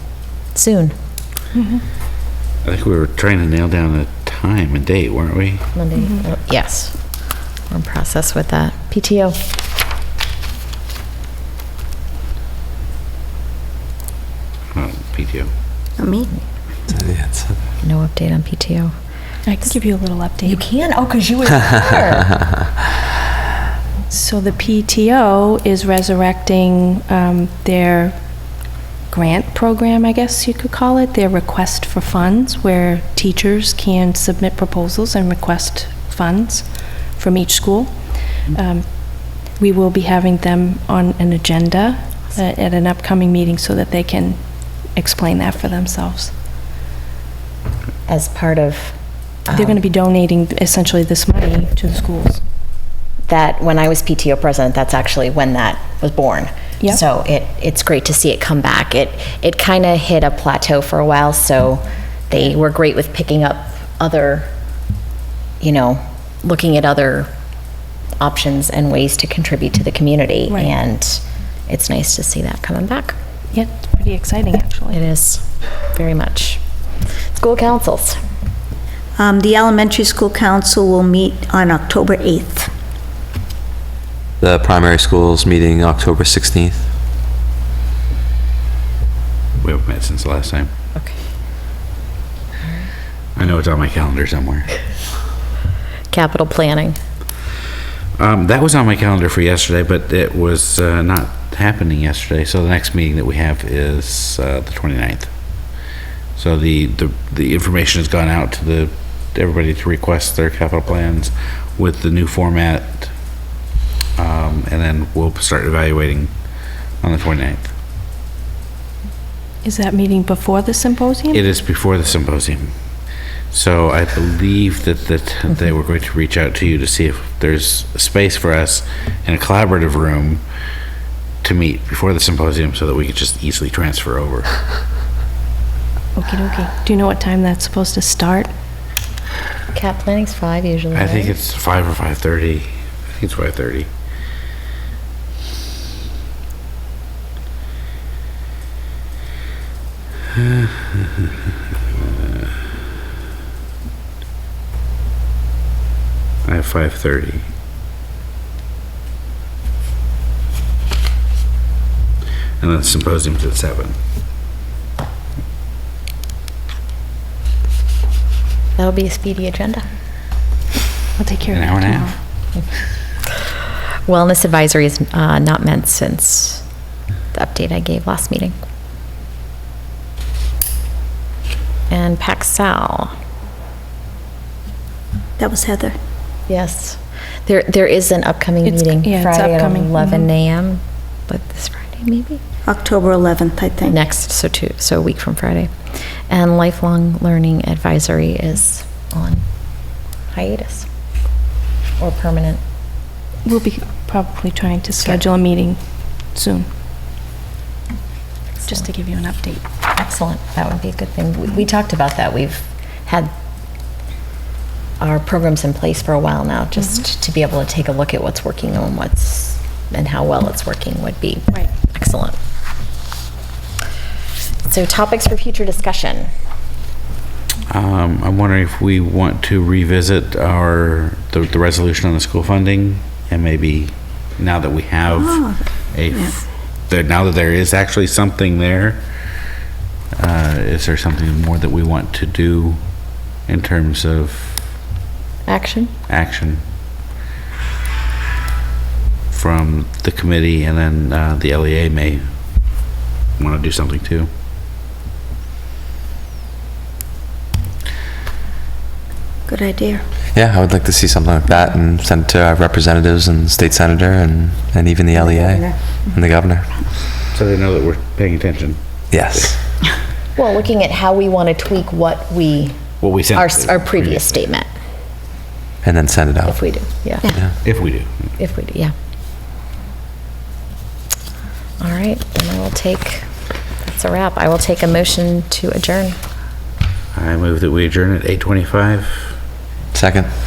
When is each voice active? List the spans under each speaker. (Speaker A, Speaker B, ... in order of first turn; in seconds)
Speaker A: 0.5-0.9, 5.7-7.0, 7.7-9.4, 17.8-18.9, 20.4-22.3, 48.1-48.9, 49.5-49.8, 53.3-64.5, 65.6-67.3, 68.2-73.1, 74.9-76.6, 77.3-78.2, 92.6-92.9, 96.1-97.0, 139.7-141.3, 168.8-169.8, 174.1-176.6, 177.3-178.5, 181.9-183.1, 186.5-192.4, 193.8-195.7, 196.3-199.4, 200.3-200.9, 202.0-202.6, 209.9-213.3, 215.0-222.4, 224.7-226.3, 245.4-245.9, 270.4-274.7, 276.4-277.3, 278.4-278.9, 281.8-283.3, 283.8-286.2
Speaker B: 1.5-1.9, 5.9-6.2, 19.4-20.6, 24.1-28.4, 29.1-46.3, 49.5-52.4, 70.5-70.7, 73.5-75.0, 119.6-121.4, 136.1-138.5, 171.2-172.2, 188.6-190.3, 203.4-206.7, 208.6-209.6
Speaker C: 2.6-5.7, 14.7-15.5, 89.6-90.7, 93.3-94.8, 98.2-105.3, 106.4-113.1, 114.2-116.3, 117.0-117.7, 121.3-122.7, 123.5-130.4, 131.4-134.6, 140.9-143.9, 150.3-151.3, 151.9-152.6, 156.4-157.4, 162.6-163.9, 171.5-172.2, 227.7-236.4, 236.9-239.0, 240.2-242.9, 243.4-244.6, 246.1-246.6, 249.3-252.2, 253.4-254.3, 267.3-268.8, 273.0-274.5, 277.6-278.1, 287.1-289.3
Speaker D: 16.0-16.3, 79.2-82.7, 185.4-185.9, 192.6-194.0, 235.1-235.6, 259.5-260.0, 265.1-266.2
Speaker E: 16.9-17.6, 84.4-86.9, 260.3-266.7, 269.1-269.6, 275.8-276.6, 289.9-290.3